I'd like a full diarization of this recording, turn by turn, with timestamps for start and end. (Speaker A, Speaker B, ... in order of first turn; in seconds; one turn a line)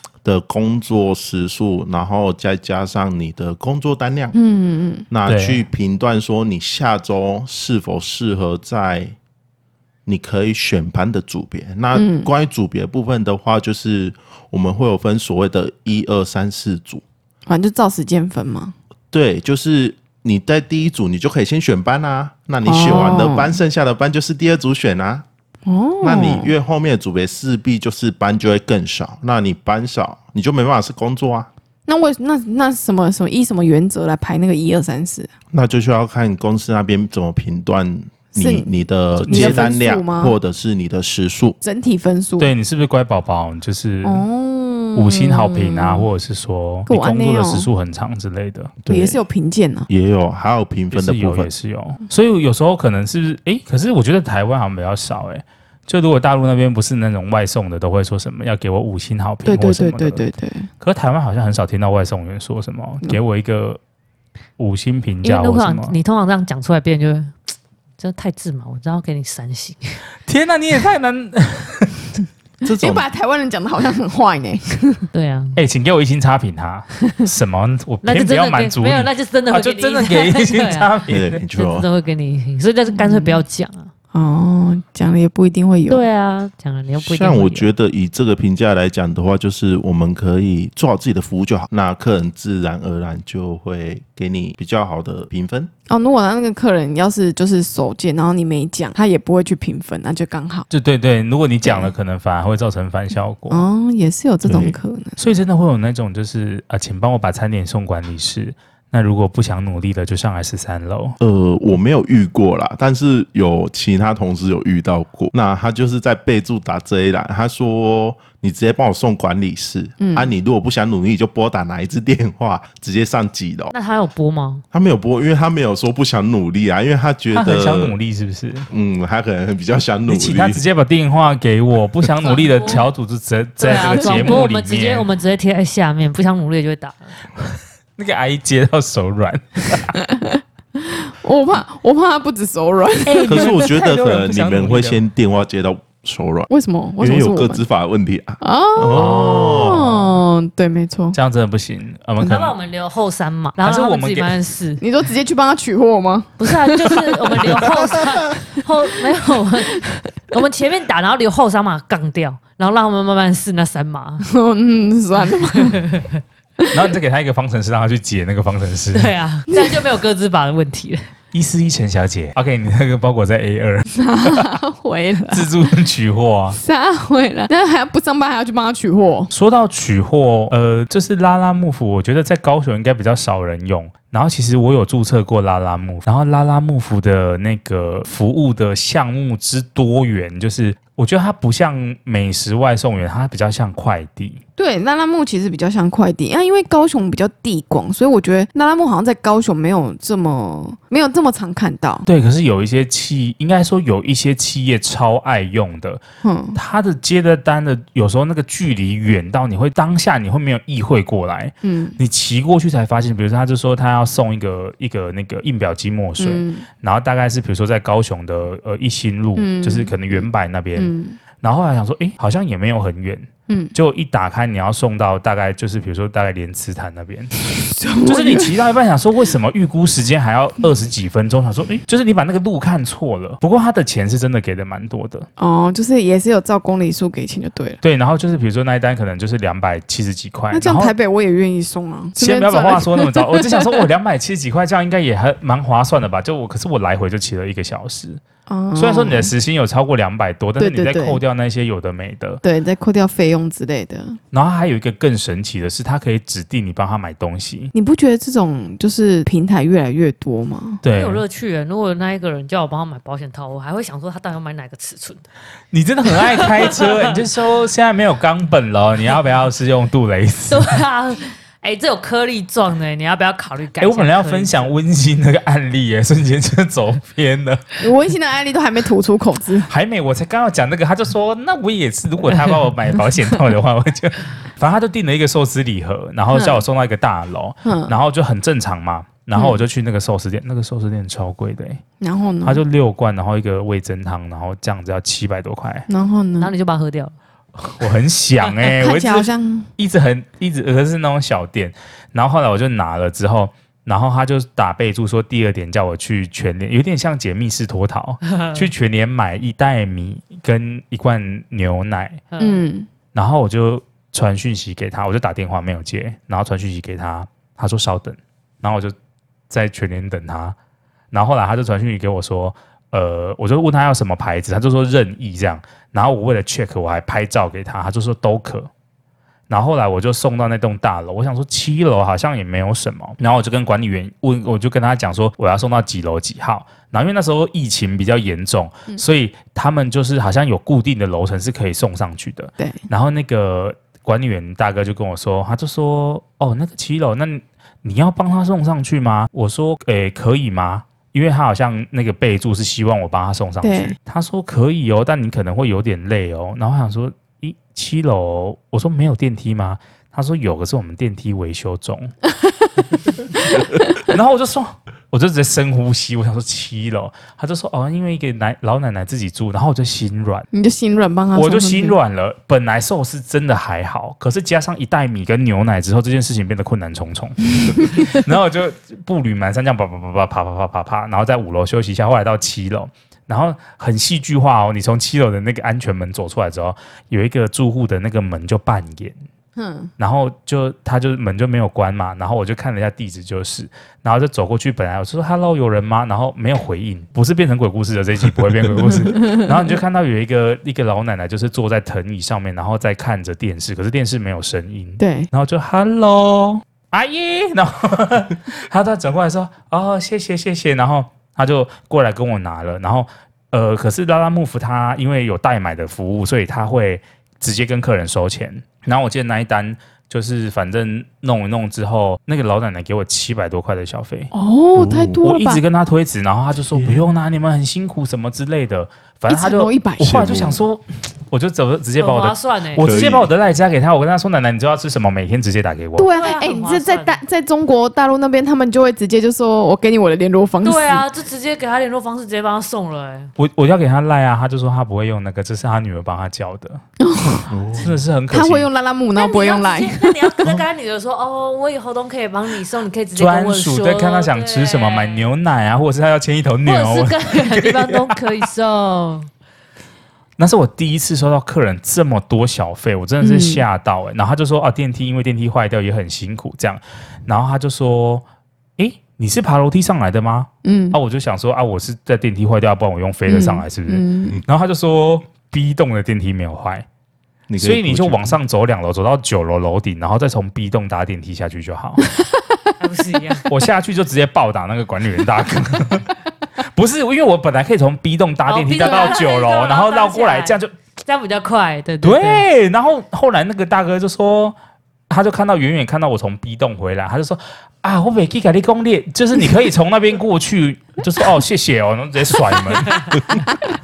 Speaker A: 0.2-4.3
Speaker B: 4.3-5.0
Speaker A: 5.1-9.2
Speaker C: 5.2-5.7
Speaker A: 10.1-17.0
Speaker B: 11.9-12.3
Speaker B: 17.5-18.7
Speaker A: 19.1-25.2
Speaker B: 22.6-23.6
Speaker B: 25.6-26.5
Speaker A: 26.0-31.5
Speaker B: 31.9-35.3
Speaker A: 35.5-41.6
Speaker B: 38.4-38.7
Speaker C: 39.1-39.7
Speaker B: 39.3-40.3
Speaker B: 41.6-42.5
Speaker C: 42.4-44.2
Speaker B: 44.0-46.1
Speaker C: 44.9-48.7
Speaker B: 46.9-47.7
Speaker A: 48.8-49.2
Speaker B: 48.9-49.9
Speaker A: 49.9-51.5
Speaker C: 50.9-60.2
Speaker B: 59.4-60.7
Speaker C: 60.8-63.8
Speaker C: 64.6-65.9
Speaker D: 65.2-70.0
Speaker C: 70.2-72.0
Speaker A: 72.6-73.1
Speaker B: 72.8-75.1
Speaker D: 75.1-75.6
Speaker C: 75.5-81.4
Speaker D: 78.0-83.9
Speaker A: 81.1-81.8
Speaker B: 82.9-83.4
Speaker B: 84.1-86.0
Speaker D: 85.9-87.7
Speaker A: 87.0-95.7
Speaker B: 95.9-100.7
Speaker C: 100.7-103.6
Speaker B: 101.6-101.9
Speaker B: 103.5-105.2
Speaker A: 104.4-104.8
Speaker C: 105.2-111.2
Speaker A: 111.2-123.7
Speaker B: 120.0-120.3
Speaker D: 123.7-124.6
Speaker A: 124.7-128.0
Speaker C: 127.3-128.7
Speaker A: 128.7-130.6
Speaker C: 130.1-135.1
Speaker D: 132.2-132.8
Speaker D: 133.6-137.2
Speaker C: 137.9-139.9
Speaker B: 139.9-143.7
Speaker C: 143.1-145.0
Speaker A: 143.3-146.5
Speaker B: 146.5-147.6
Speaker A: 147.0-150.1
Speaker B: 148.4-151.2
Speaker C: 148.9-149.8
Speaker C: 151.1-152.5
Speaker D: 152.2-154.8
Speaker C: 153.6-154.3
Speaker B: 154.8-157.0
Speaker D: 156.4-164.2
Speaker B: 164.3-165.8
Speaker D: 165.2-166.2
Speaker C: 166.7-169.1
Speaker D: 168.9-171.0
Speaker B: 169.5-169.8
Speaker C: 171.3-174.4
Speaker B: 174.0-175.5
Speaker C: 175.3-176.6
Speaker B: 176.5-179.3
Speaker C: 179.3-194.4
Speaker B: 194.6-202.1
Speaker C: 202.1-206.0
Speaker B: 206.2-206.6
Speaker C: 206.5-227.3
Speaker B: 211.6-212.0
Speaker B: 216.2-216.7
Speaker B: 219.3-221.2
Speaker B: 223.5-223.7
Speaker B: 227.5-228.6
Speaker C: 228.1-235.3
Speaker B: 235.4-237.8
Speaker C: 237.8-240.9
Speaker B: 240.5-243.9
Speaker C: 242.2-248.2
Speaker B: 248.5-249.3
Speaker C: 248.7-252.4
Speaker B: 250.6-251.2
Speaker B: 252.4-254.2
Speaker C: 254.3-257.7
Speaker B: 257.7-260.8
Speaker C: 260.8-261.2
Speaker D: 260.9-265.2
Speaker C: 265.7-270.8
Speaker D: 266.1-267.1
Speaker D: 270.5-274.7
Speaker C: 273.8-277.8
Speaker B: 277.8-279.7
Speaker C: 279.7-291.8
Speaker B: 286.3-286.6
Speaker B: 287.6-288.0
Speaker B: 289.3-289.6
Speaker B: 292.0-292.6
Speaker C: 292.4-295.9
Speaker B: 295.9-296.5
Speaker D: 296.4-297.1
Speaker C: 297.6-312.2
Speaker B: 298.6-299.7
Speaker D: 308.3-308.6
Speaker D: 312.3-312.6
Speaker B: 312.4-312.9
Speaker C: 313.1-318.9
Speaker C: 319.5-320.6
Speaker C: 321.1-328.7
Speaker C: 329.5-362.1
Speaker B: 353.6-354.0
Speaker C: 363.9-370.5
Speaker B: 370.5-372.0
Speaker C: 371.3-389.2
Speaker B: 389.6-389.9
Speaker C: 390.0-424.3
Speaker B: 399.2-399.5
Speaker B: 405.0-405.3
Speaker B: 424.3-425.6
Speaker A: 424.8-425.2
Speaker C: 425.2-436.1
Speaker A: 426.7-427.0
Speaker B: 429.3-430.1
Speaker A: 430.0-430.6
Speaker D: 432.0-432.8
Speaker A: 432.8-433.3
Speaker B: 436.0-441.1
Speaker D: 436.1-437.2
Speaker D: 440.6-443.3
Speaker C: 443.4-446.8
Speaker B: 447.0-447.5
Speaker A: 447.5-447.9
Speaker C: 447.7-448.7
Speaker B: 448.3-450.1
Speaker D: 449.1-455.3
Speaker C: 453.1-458.2
Speaker D: 456.6-459.3
Speaker C: 460.4-468.2
Speaker B: 463.2-463.6
Speaker C: 468.8-476.9
Speaker B: 470.6-471.0
Speaker B: 473.3-474.4
Speaker A: 477.5-478.4
Speaker C: 477.6-482.0
Speaker D: 482.8-483.5
Speaker C: 483.5-486.1
Speaker C: 486.6-490.7
Speaker D: 488.5-492.4
Speaker C: 492.0-494.6
Speaker C: 495.1-503.0